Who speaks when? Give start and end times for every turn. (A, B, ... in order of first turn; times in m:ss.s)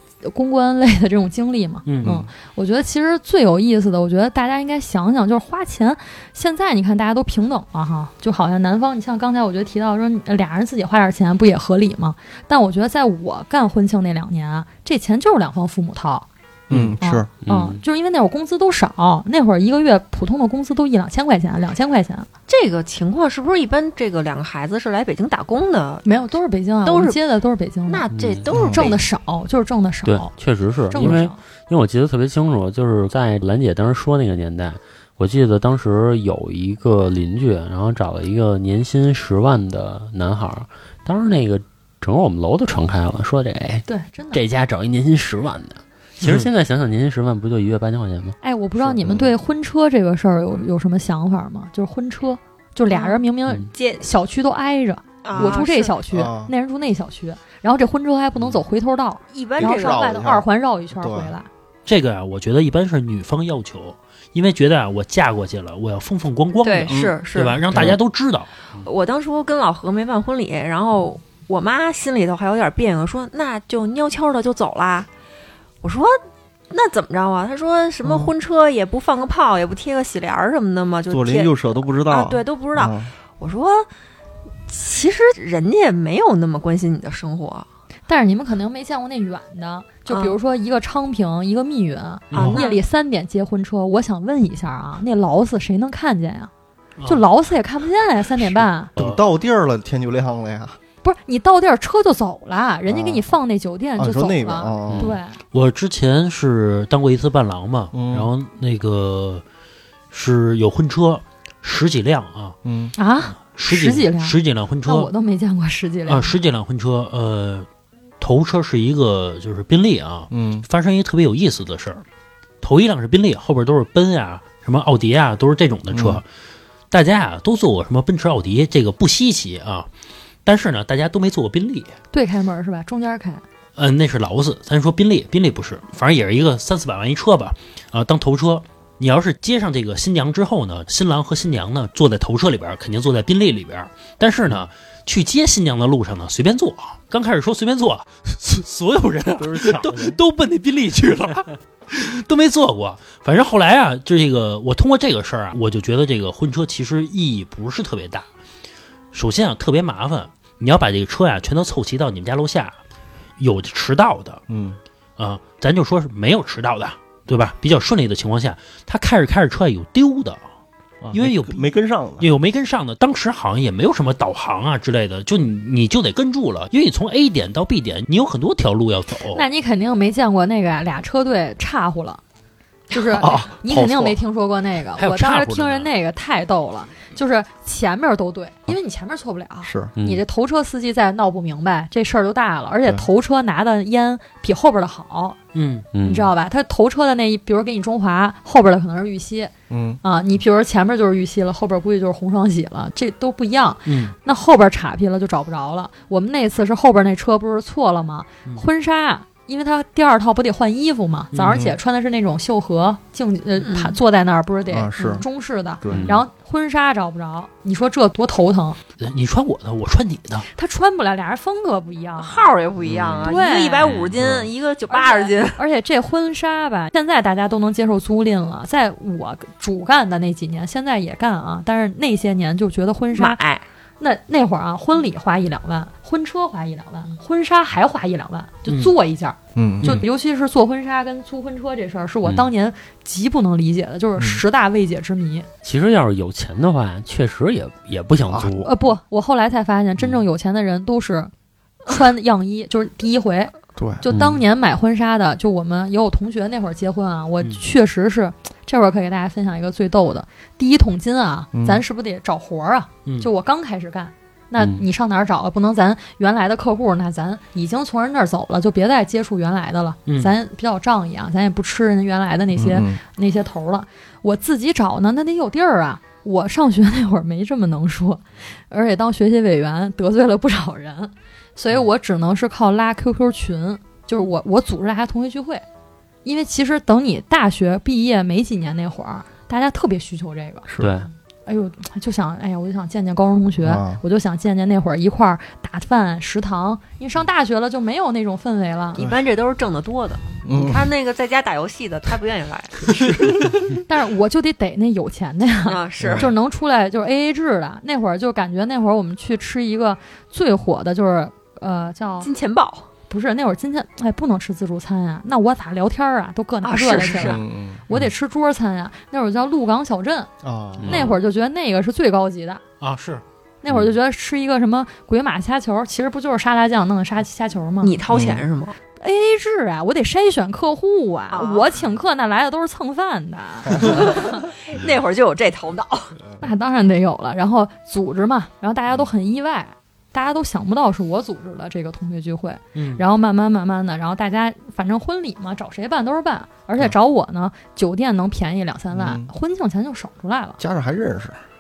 0:00.2-0:16.3 A
0:01.9-0:02.2 B
0:02.0-0:02.3 C
0:16.7-0:17.3 C
0:16.7-0:17.8 D
0:17.0-0:22.3 A
0:22.5-0:26.0 E
0:26.0-0:28.0 A
0:26.8-0:27.2 E
0:27.9-0:29.0 E
0:28.2-0:28.5 D
0:28.5-0:28.9 C
0:28.7-0:30.3 A
0:30.0-0:48.4 D
0:30.9-0:31.4 A
0:43.9-0:44.4 A
0:46.2-0:46.5 B
0:48.4-1:01.5 A
0:48.8-0:49.3 C
0:52.9-0:53.2 E
0:53.7-0:54.1 E
0:55.2-0:56.0 E
0:55.4-0:56.5 C
0:59.3-1:00.1 E
0:59.6-1:01.3 C
1:01.9-1:08.5 B
1:06.6-1:07.8 E
1:06.9-1:07.2 C
1:07.7-1:08.0 C
1:08.8-1:15.1 E
1:15.8-1:16.2 E
1:16.7-1:23.9 E
1:18.0-1:18.3 C
1:21.1-1:23.1 C
1:24.7-1:27.7 E
1:28.1-1:36.5 A
1:30.1-1:30.4 E
1:32.3-1:32.6 B
1:32.3-1:32.8 E
1:37.0-1:37.2 B
1:37.1-1:38.9 A
1:39.0-1:39.2 B
1:39.0-1:40.8 C
1:41.0-1:45.4 A
1:42.9-1:43.3 C
1:44.0-1:45.2 C
1:44.9-1:45.2 D
1:45.5-1:49.4 B
1:47.9-1:48.3 C
1:50.1-1:52.6 B
1:52.6-1:52.9 C
1:53.0-1:56.4 A
1:53.4-1:55.1 B
1:56.1-1:57.7 B
1:58.2-2:02.0 B
2:00.3-2:00.6 C
2:02.6-2:06.2 B
2:05.9-2:06.2 C
2:06.9-2:09.9 B
2:10.4-2:11.9 B
2:12.1-2:13.4 A
2:13.8-2:38.3 B
2:29.4-2:30.2 C
2:39.1-2:42.8 B
2:43.4-2:44.4 B
2:44.5-2:44.8 C
2:45.2-2:50.4 B
2:51.0-2:52.3 C
2:51.1-2:51.6 B
2:52.2-2:59.4 B
2:59.3-3:02.2 A
3:02.9-3:15.4 A
3:03.2-3:04.2 C
3:03.2-3:03.5 B
3:05.0-3:05.9 B
3:09.6-3:09.9 C
3:10.0-3:10.2 D
3:15.5-3:15.9 B
3:15.9-3:16.3 D
3:16.0-3:38.8 A
3:19.7-3:20.0 C
3:23.9-3:24.2 B
3:31.3-3:31.7 B
3:33.6-3:34.0 E
3:34.7-3:35.2 C
3:35.8-3:36.2 C
3:35.9-3:36.2 D
3:39.0-3:40.5 B
3:40.6-3:42.5 A
3:42.2-3:45.6 E
3:42.8-3:43.3 C
3:43.2-3:43.9 A
3:44.9-3:53.4 A
3:53.2-3:53.7 E
3:54.0-4:05.5 A
3:58.7-3:58.9 B
3:59.6-4:00.0 C
4:02.2-4:02.5 D
4:04.2-4:04.4 C
4:05.6-4:08.7 D
4:08.3-4:08.6 C
4:08.6-4:11.3 A
4:11.9-4:45.6 A
4:13.8-4:14.0 C
4:14.1-4:14.4 D
4:21.5-4:21.8 C
4:24.6-4:24.8 D
4:30.1-4:30.3 B
4:32.6-4:33.0 C
4:46.2-4:50.7 A
4:50.7-4:51.0 C
4:50.8-4:51.1 D
4:51.5-4:59.0 A
4:53.6-4:54.0 C
4:59.0-5:03.4 E
5:00.4-5:00.9 C
5:02.9-5:03.6 C
5:03.9-5:12.3 A
5:05.6-5:06.3 E
5:06.0-5:06.3 C
5:12.2-5:12.9 E
5:13.1-5:20.3 A
5:16.6-5:17.4 E
5:17.1-5:18.1 C
5:20.4-5:21.1 C
5:20.8-5:21.2 D
5:20.8-5:22.6 A
5:22.8-5:23.2 B
5:23.6-5:27.9 A
5:27.8-5:28.8 E
5:28.1-5:28.4 C
5:29.0-5:34.5 A
5:31.3-5:31.7 E
5:33.7-5:34.0 C
5:33.8-5:36.2 E
5:36.4-5:50.6 A
5:42.7-5:43.0 B
5:48.9-5:49.3 C
5:50.6-5:51.4 C